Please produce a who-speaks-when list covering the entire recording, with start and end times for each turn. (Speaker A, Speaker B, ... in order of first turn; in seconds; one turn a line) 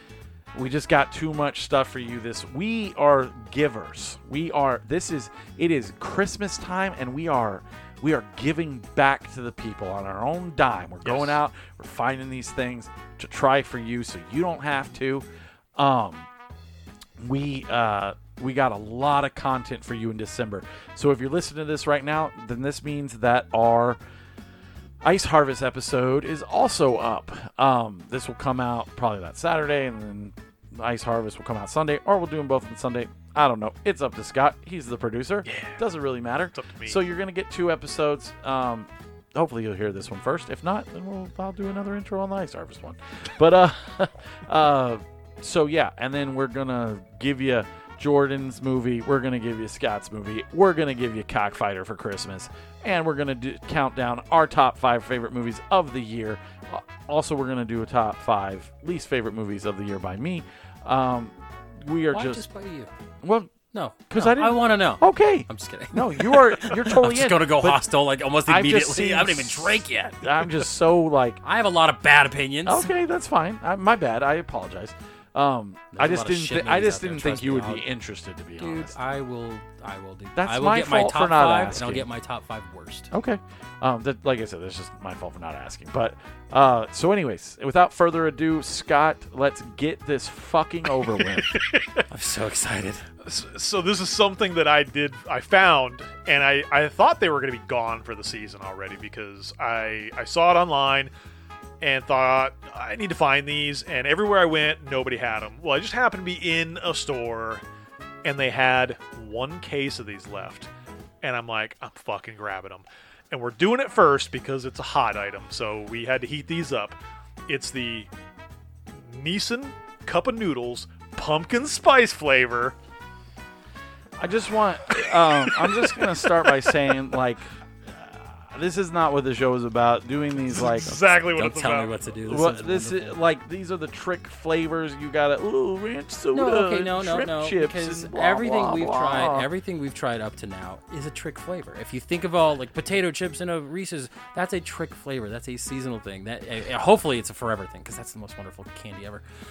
Speaker A: 0.5-16.3
Speaker B: 11.0-11.3
Speaker A: 17.2-24.0
Speaker A: 25.0-62.4
Speaker B: 35.5-35.8
Speaker B: 36.5-37.0
Speaker C: 62.1-62.9
Speaker A: 63.2-63.5
Speaker C: 63.7-70.5
Speaker A: 64.1-67.9
Speaker A: 68.4-71.4
Speaker C: 71.4-72.9
Speaker A: 72.6-78.9
Speaker C: 75.9-77.8
Speaker C: 78.6-83.1
Speaker A: 80.3-82.1
Speaker A: 83.1-91.6
Speaker B: 91.2-92.0
Speaker C: 92.1-93.0
Speaker B: 93.2-101.1
Speaker B: 101.8-107.6
Speaker B: 108.2-110.7
Speaker B: 111.2-118.1
Speaker B: 118.9-122.7
Speaker A: 124.2-130.9
Speaker B: 124.9-126.4
Speaker B: 130.5-132.1
Speaker C: 130.8-133.2
Speaker A: 132.3-139.5
Speaker C: 136.3-149.2